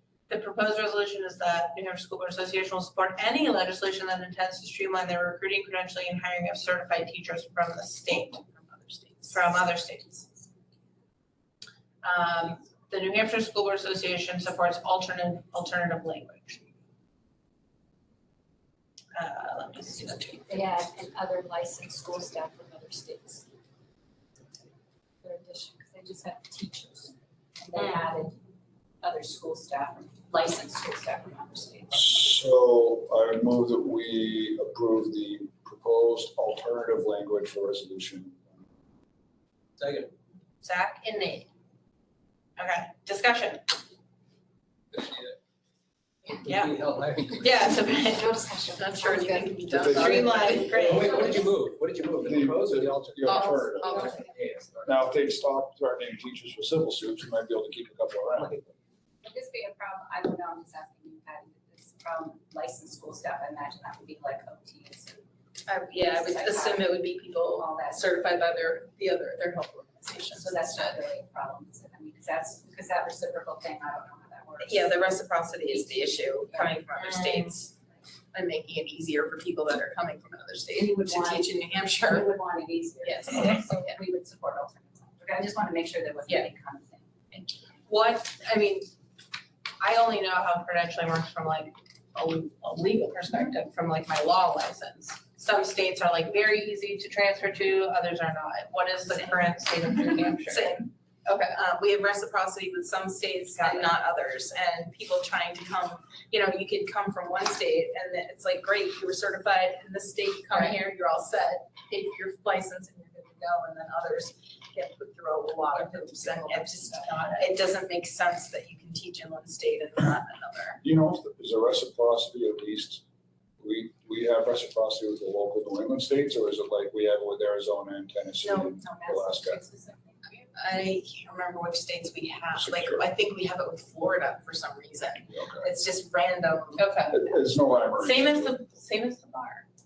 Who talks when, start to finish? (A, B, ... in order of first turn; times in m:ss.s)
0:00.3-0:08.4 A
0:08.4-0:09.3 B
0:09.3-0:10.3 A
0:12.0-0:16.6 A
0:19.1-0:20.7 A
0:20.5-0:23.5 C
0:25.2-0:28.4 C
0:29.0-0:32.2 C
0:31.9-0:38.5 D
0:39.8-0:40.1 E
0:40.6-0:41.5 A
0:42.6-0:43.6 A
0:44.9-0:45.4 E
0:46.3-0:47.7 E
0:46.4-0:46.8 A
0:47.4-0:48.3 A
0:48.0-0:51.4 C
0:48.8-0:50.4 B
0:49.7-0:50.6 D
0:49.9-0:51.4 A
0:50.0-0:55.1 E
0:52.2-0:54.2 D
0:53.3-0:54.1 B
0:53.5-0:54.3 C
0:54.8-0:58.5 D
0:58.4-0:58.8 E
0:59.2-1:05.2 C
1:05.7-1:11.0 B
1:05.9-1:07.0 C
1:07.6-1:08.2 C
1:10.3-1:16.9 C
1:14.6-1:17.7 B
1:17.0-1:17.5 A
1:18.3-1:22.3 B
1:20.7-1:27.8 C
1:23.0-1:24.0 B
1:27.9-1:28.9 A
1:29.8-1:40.8 A
1:39.0-2:00.8 B
1:43.6-1:43.9 A
1:50.5-1:50.8 A
1:55.7-1:57.5 A
2:00.8-2:03.0 D
2:03.6-2:09.6 D
2:08.4-2:10.5 C
2:10.5-2:16.9 B
2:12.5-2:13.0 D
2:15.3-2:15.7 D
2:16.8-2:17.2 A
2:17.1-2:18.5 D
2:18.0-2:19.7 A